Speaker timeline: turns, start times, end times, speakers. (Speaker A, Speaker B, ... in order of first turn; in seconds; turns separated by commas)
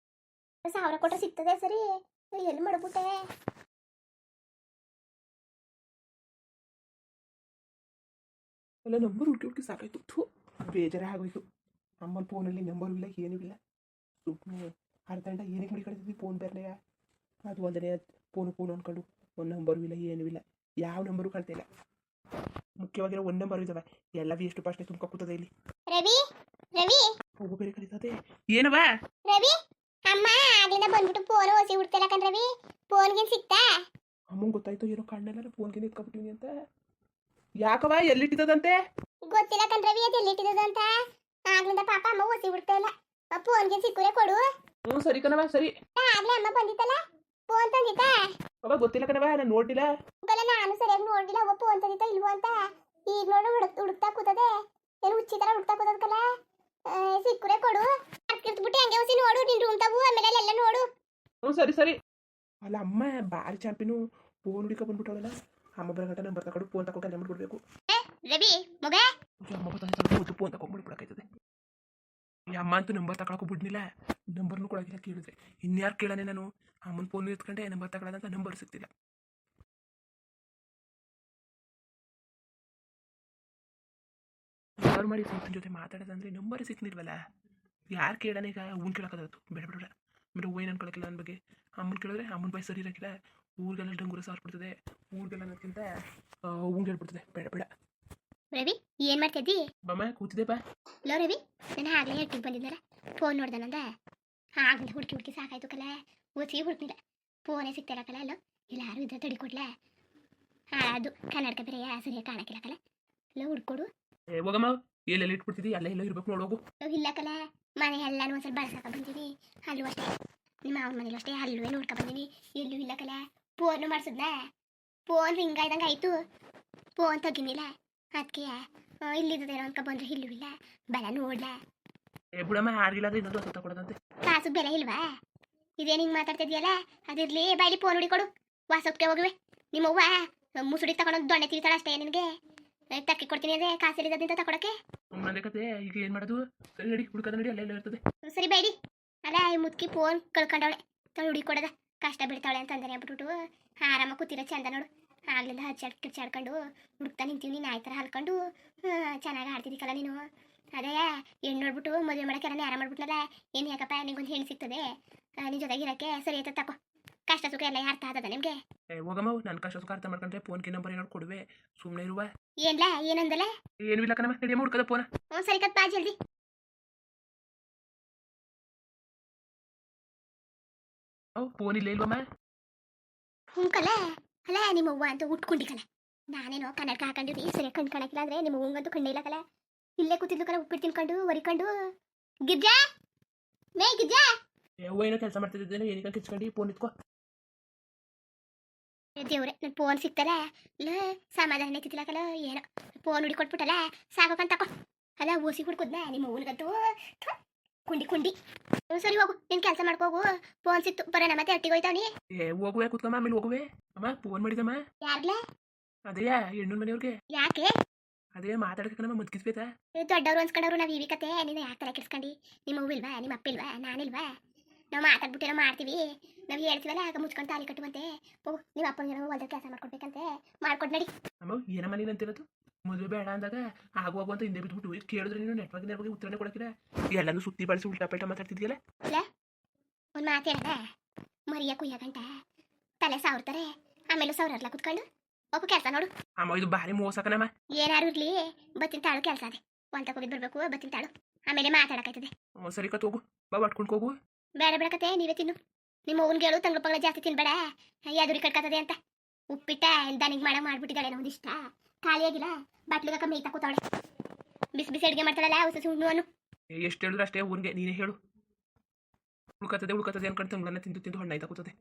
Speaker A: 0.7-3.1, Speaker B: 8.8-11.4, Speaker B: 12.1-13.6, Speaker B: 14.2-16.7, Speaker B: 17.5-21.6, Speaker B: 22.8-25.5, Speaker A: 25.9-26.2, Speaker A: 26.8-27.1, Speaker B: 27.4-28.9, Speaker A: 30.1-33.6, Speaker B: 34.3-36.5, Speaker B: 37.6-38.8, Speaker A: 39.3-40.9, Speaker A: 41.5-44.4, Speaker B: 44.9-45.7, Speaker A: 46.0-47.0, Speaker A: 47.5-48.2, Speaker B: 48.6-49.9, Speaker A: 50.2-52.5, Speaker A: 53.1-54.5, Speaker A: 55.0-56.2, Speaker A: 56.9-60.9, Speaker B: 61.5-62.0, Speaker B: 62.6-67.6, Speaker A: 67.9-69.0, Speaker B: 69.5-71.2, Speaker B: 72.5-73.8, Speaker B: 74.4-78.9, Speaker B: 84.8-87.2, Speaker B: 88.0-95.9, Speaker B: 96.5-97.7, Speaker A: 98.5-99.6, Speaker B: 99.9-100.6, Speaker A: 101.1-103.8, Speaker A: 104.6-107.0, Speaker A: 107.5-109.7, Speaker A: 110.8-112.8, Speaker A: 113.4-113.9, Speaker B: 114.4-116.6, Speaker A: 116.8-120.1, Speaker A: 120.7-124.4, Speaker A: 125.1-126.2, Speaker A: 127.0-131.6, Speaker B: 132.4-133.9, Speaker A: 134.3-135.0, Speaker A: 135.8-142.3, Speaker A: 143.0-144.7, Speaker B: 145.1-148.0, Speaker A: 148.3-148.7, Speaker A: 149.3-153.3, Speaker A: 153.8-160.2, Speaker A: 160.8-164.8, Speaker A: 165.4-166.7, Speaker A: 167.3-168.6, Speaker B: 169.0-172.3, Speaker A: 172.6-173.5, Speaker B: 173.9-175.1, Speaker A: 175.3-176.1, Speaker B: 181.4-182.2, Speaker A: 183.6-189.4, Speaker A: 190.0-191.7, Speaker A: 192.5-192.8, Speaker A: 193.8-194.3, Speaker B: 194.9-196.9, Speaker A: 199.2-204.7, Speaker A: 205.2-207.3, Speaker A: 207.9-208.3, Speaker A: 208.9-212.1, Speaker B: 212.4-214.8, Speaker A: 215.0-215.4, Speaker B: 216.1-217.1, Speaker A: 217.4-217.7, Speaker B: 218.3-219.7, Speaker A: 220.0-224.3, Speaker A: 225.0-231.1, Speaker B: 231.4-238.8, Speaker A: 240.2-240.8, Speaker A: 241.5-242.3, Speaker A: 243.0-245.0, Speaker A: 245.6-246.1, Speaker B: 246.4-247.5, Speaker A: 247.8-252.3, Speaker B: 252.6-254.1, Speaker A: 254.6-255.6, Speaker A: 256.1-257.6, Speaker A: 258.1-258.9, Speaker A: 259.5-263.8, Speaker A: 264.8-266.2, Speaker B: 266.8-268.2, Speaker B: 269.6-271.7